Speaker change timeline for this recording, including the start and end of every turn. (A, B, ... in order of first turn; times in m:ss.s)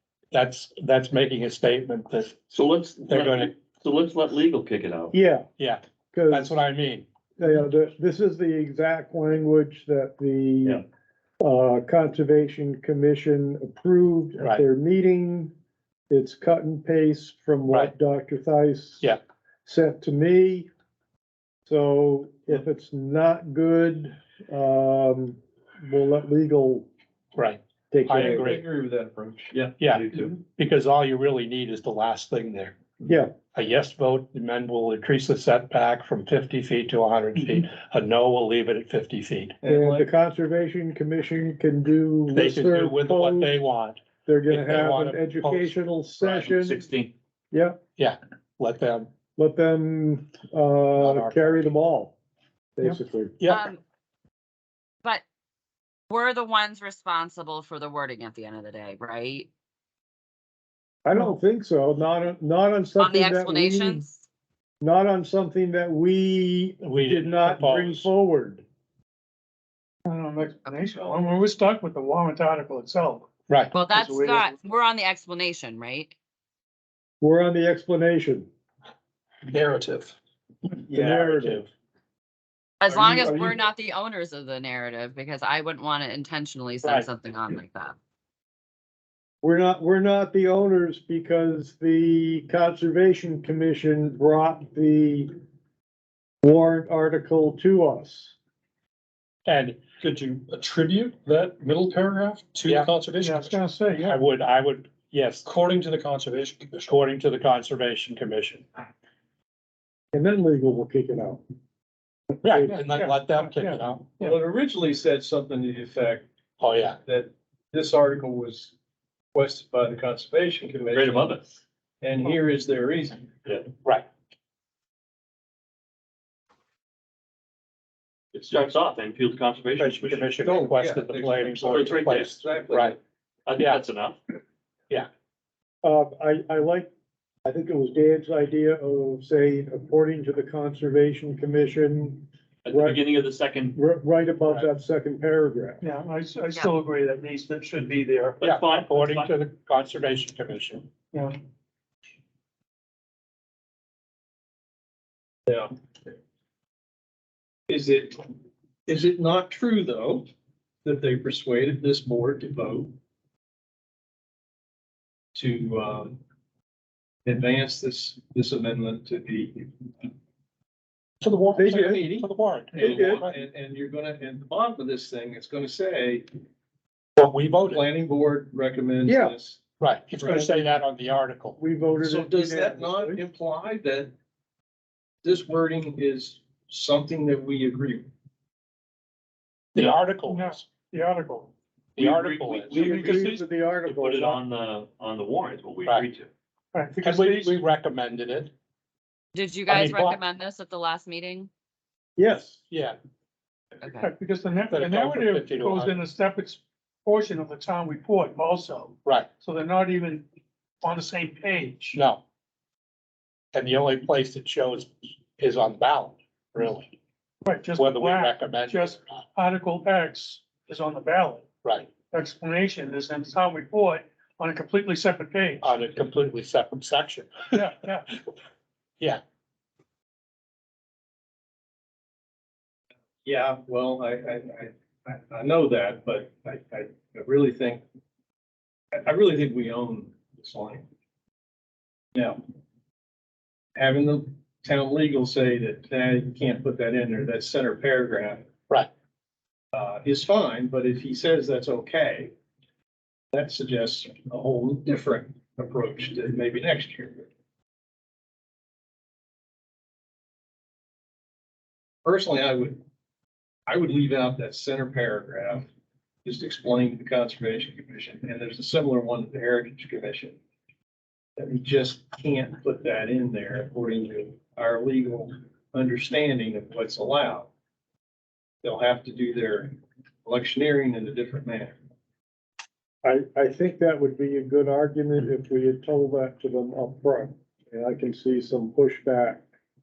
0:00.3-0:02.4 A
0:02.5-0:05.1 B
0:03.1-0:03.5 A
0:05.1-0:05.4 C
0:05.6-0:07.1 A
0:06.1-0:06.6 C
0:07.4-0:10.8 C
0:11.4-0:15.5 C
0:14.4-0:14.6 A
0:16.1-0:20.7 C
0:21.7-0:26.9 C
0:27.4-0:28.6 A
0:27.9-0:28.6 C
0:28.1-0:30.4 D
0:29.8-0:32.8 A
0:33.0-0:33.3 C
0:33.5-0:39.6 A
0:39.6-0:40.0 D
0:39.6-0:43.5 C
0:42.3-0:45.8 A
0:44.2-0:46.8 C
0:46.2-0:47.1 B
0:47.5-0:47.8 C
0:48.0-0:49.1 A
0:49.4-0:52.1 C
0:51.0-0:51.5 A
0:52.8-0:53.3 C
0:53.4-0:53.6 A
0:53.5-0:53.8 E
0:56.1-0:59.5 E
1:01.0-1:04.0 C
1:03.0-1:04.2 E
1:04.8-1:08.6 C
1:06.8-1:08.1 A
1:10.0-1:13.3 F
1:13.5-1:13.7 A
1:13.7-1:16.1 E
1:13.9-1:14.5 F
1:17.2-1:18.5 C
1:19.5-1:20.1 G
1:20.9-1:21.6 C
1:20.9-1:21.7 A
1:22.8-1:28.0 E
1:22.9-1:23.6 C
1:26.8-1:27.1 A
1:29.4-1:35.3 C
1:36.4-1:38.3 C
1:39.4-1:39.8 A
1:39.9-1:43.6 G
1:42.6-1:42.9 A
1:43.2-1:44.2 F
1:44.0-1:45.5 A
1:45.4-1:46.9 G
1:46.8-1:48.6 A
1:50.1-1:51.4 C
1:52.4-1:54.0 A
1:52.5-1:52.7 C
1:52.8-1:54.4 F
1:54.2-1:56.2 D
1:56.6-1:57.0 A
1:57.0-1:58.7 D
1:59.3-2:01.3 D
2:00.9-2:01.6 B
2:02.0-2:03.4 D
2:08.3-2:10.3 B
2:09.8-2:13.0 A
2:10.4-2:13.0 D
2:11.6-2:12.4 B
2:13.4-2:14.2 B
2:15.8-2:16.9 C
2:17.4-2:23.0 C
2:22.6-2:23.8 B
2:23.7-2:25.8 C
2:25.8-2:28.4 F
2:28.4-2:29.3 B
2:28.4-2:30.9 A
2:37.7-2:38.3 D
2:38.9-2:40.3 D
2:40.8-2:42.9 D
2:45.3-2:46.2 D
2:47.2-2:50.1 D
2:51.2-2:53.3 A
2:51.6-2:53.2 C
2:52.7-2:56.2 D
2:57.2-2:57.8 A
2:57.7-2:59.6 D
2:59.0-2:59.3 C
2:59.8-3:01.6 A
3:00.2-3:00.6 C
3:01.6-3:03.2 C
3:02.0-3:04.1 D
3:05.2-3:08.1 D
3:09.7-3:10.6 A
3:09.8-3:11.5 F
3:12.0-3:13.0 A
3:12.0-3:16.3 B
3:12.0-3:12.9 D
3:12.7-3:14.4 C
3:12.8-3:13.4 F
3:16.7-3:17.6 F
3:17.0-3:18.5 A
3:19.3-3:21.5 E
3:19.7-3:20.2 A
3:22.2-3:22.6 C
3:22.7-3:23.0 A
3:23.8-3:24.1 E
3:24.0-3:30.2 F
3:24.7-3:25.9 A
3:30.8-3:32.0 F
3:31.9-3:32.2 A
3:33.5-3:36.9 A
3:37.4-3:41.4 F
3:37.7-3:39.2 A
3:41.6-3:41.9 A
3:42.1-3:45.6 F
3:45.6-3:47.5 A
3:47.5-3:48.1 F
3:53.2-3:57.8 D
3:58.9-4:00.8 D
4:03.8-4:08.5 D
4:09.7-4:12.3 D
4:13.3-4:17.3 D
4:22.0-4:22.8 D
4:23.7-4:25.6 D
4:26.2-4:30.4 D
4:31.4-4:37.5 D
4:38.6-4:41.8 D
4:43.0-4:49.4 C